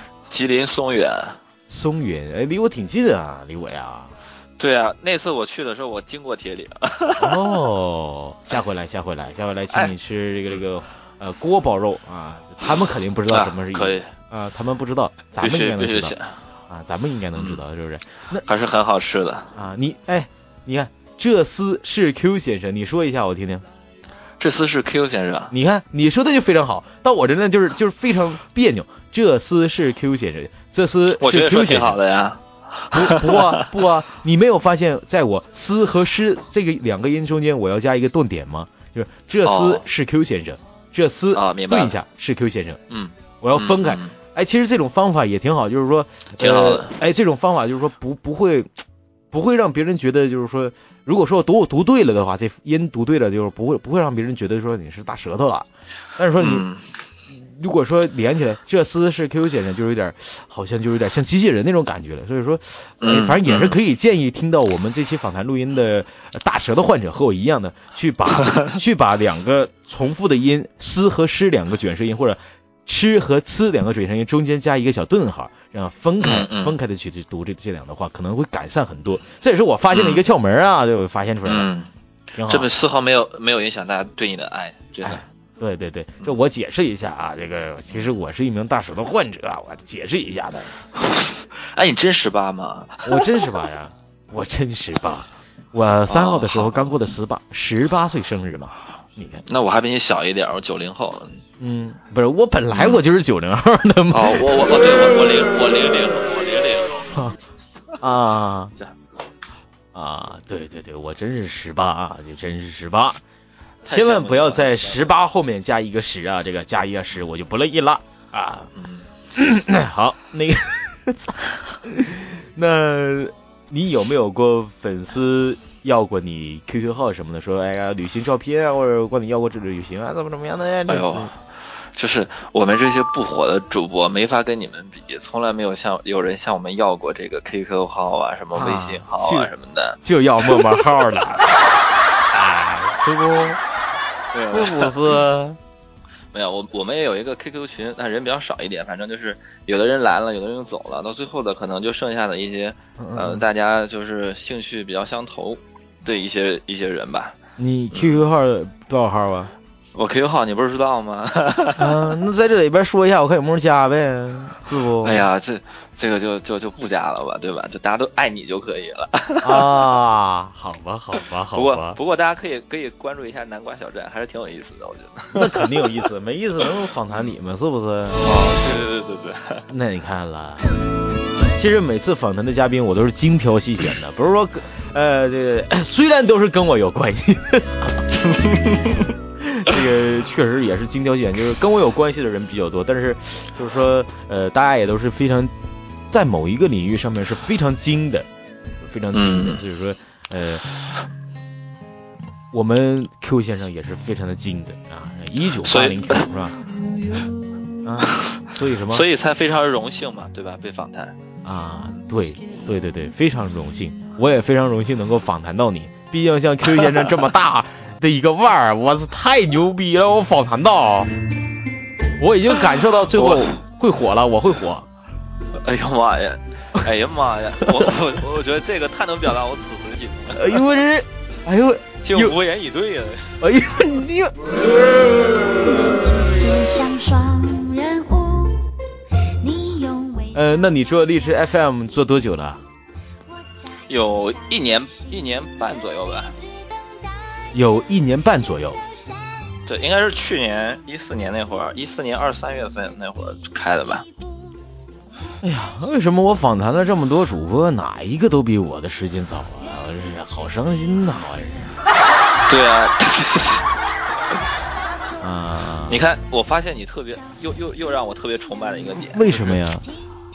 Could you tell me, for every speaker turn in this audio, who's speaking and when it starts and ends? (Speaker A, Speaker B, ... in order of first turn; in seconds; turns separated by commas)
Speaker A: 0.3-1.4, Speaker B: 1.7-4.1, Speaker A: 4.6-7.4, Speaker B: 7.2-16.1, Speaker A: 13.3-14.1, Speaker A: 15.4-16.4, Speaker B: 16.7-18.4, Speaker A: 17.3-17.6, Speaker A: 18.4-19.5, Speaker B: 19.5-23.6, Speaker A: 24.4-25.5, Speaker B: 25.5-32.0, Speaker A: 31.2-33.7, Speaker B: 32.9-42.8, Speaker A: 39.4-39.8, Speaker A: 41.3-41.9, Speaker A: 42.9-44.1, Speaker B: 43.4-48.8, Speaker A: 46.4-47.0, Speaker B: 49.3-56.6, Speaker A: 56.4-56.8, Speaker B: 57.3-81.7, Speaker A: 63.0-63.8, Speaker A: 76.2-76.8, Speaker A: 79.9-80.2, Speaker A: 81.5-81.9, Speaker B: 82.3-82.7, Speaker A: 82.5-85.2, Speaker B: 85.0-90.8, Speaker A: 91.0-93.3, Speaker B: 93.0-99.5, Speaker A: 96.1-96.9, Speaker A: 99.5-101.4, Speaker B: 101.6-104.8, Speaker A: 102.7-103.0, Speaker A: 104.1-107.1, Speaker B: 108.0-108.7, Speaker B: 109.9-113.2, Speaker A: 113.8-115.1, Speaker B: 113.9-118.7, Speaker A: 118.7-119.1, Speaker B: 119.3-131.3, Speaker A: 130.9-131.4, Speaker A: 131.9-140.0, Speaker B: 138.5-139.5, Speaker B: 140.0-141.5, Speaker B: 142.3-143.6, Speaker A: 144.3-145.0, Speaker B: 144.5-145.6, Speaker A: 146.3-157.3, Speaker B: 153.0-153.4, Speaker B: 157.6-159.5, Speaker A: 157.9-158.2, Speaker A: 159.9-162.1, Speaker B: 161.8-165.2, Speaker A: 165.0-169.7, Speaker B: 169.4-172.0, Speaker A: 171.5-175.9, Speaker B: 175.3-178.3, Speaker A: 178.2-179.6, Speaker B: 179.7-180.7, Speaker B: 181.5-188.1, Speaker A: 188.3-189.0, Speaker B: 189.4-195.5, Speaker B: 196.1-198.3, Speaker B: 198.8-200.6, Speaker A: 199.1-199.6, Speaker B: 202.5-206.6, Speaker A: 205.6-206.2, Speaker B: 207.8-209.1, Speaker A: 208.0-211.2, Speaker B: 211.4-221.1, Speaker B: 222.2-224.9, Speaker A: 223.1-223.6, Speaker A: 225.6-230.6, Speaker B: 230.3-232.3, Speaker A: 232.0-233.5, Speaker B: 233.4-234.3, Speaker C: 235.3-238.7, Speaker C: 239.4-240.4, Speaker B: 240.3-242.6, Speaker A: 243.9-246.3, Speaker B: 247.5-248.8, Speaker A: 249.7-254.1, Speaker B: 255.4-261.8, Speaker A: 262.5-263.6, Speaker B: 265.2-266.0, Speaker A: 265.9-269.5, Speaker B: 269.1-269.9